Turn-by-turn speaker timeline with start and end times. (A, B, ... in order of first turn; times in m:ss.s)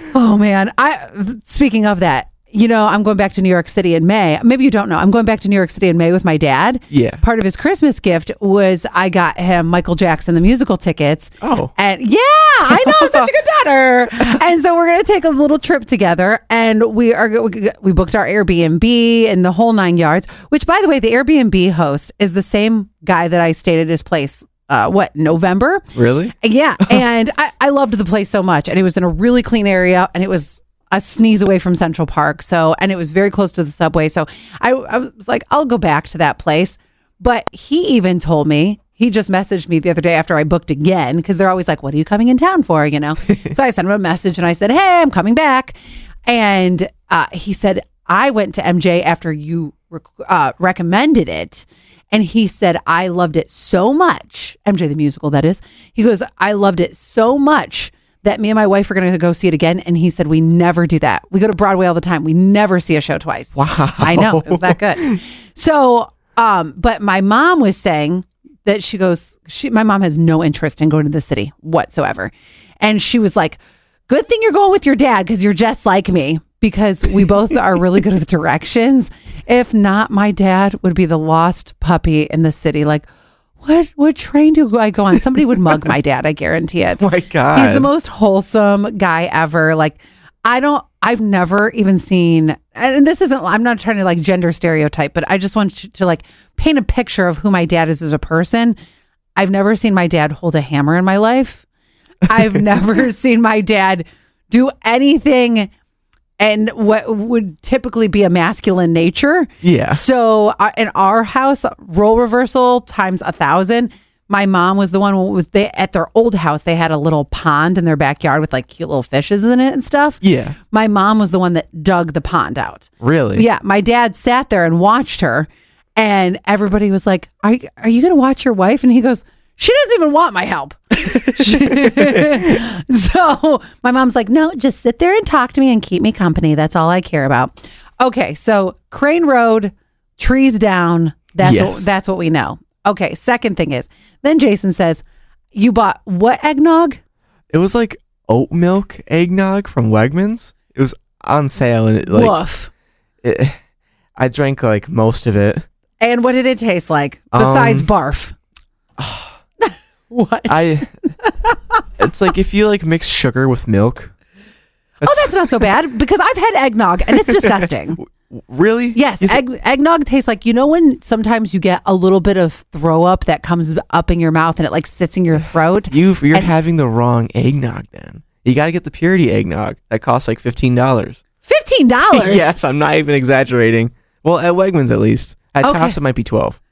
0:00.1-1:23.0 A
0:06.9-0:07.2 B
0:11.4-0:11.7 B
0:12.7-0:13.2 B
0:25.9-0:26.3 B
1:03.5-1:05.2 B
1:23.6-1:38.8 A
1:27.0-1:27.9 B
1:39.4-1:41.6 A
1:42.2-1:45.7 A
1:46.4-2:27.0 A
1:49.6-1:50.0 B
2:00.2-2:00.6 B
2:03.0-2:03.4 B
2:11.5-2:12.3 B
2:21.4-2:22.0 B
2:27.5-2:32.4 B
2:32.1-2:32.7 A
2:33.2-2:33.6 B
2:34.2-2:35.6 B
2:36.0-2:38.3 A
2:37.3-2:37.9 B
2:39.0-2:39.4 B
2:39.6-2:41.6 A
2:40.5-2:40.9 B
2:42.0-2:44.1 B
2:45.0-2:45.7 B
2:45.0-2:48.0 A
2:47.3-2:49.4 B
2:48.9-2:56.5 A
2:55.9-3:01.2 B
3:01.4-3:02.6 A
3:02.1-3:06.6 B
3:05.6-3:06.0 A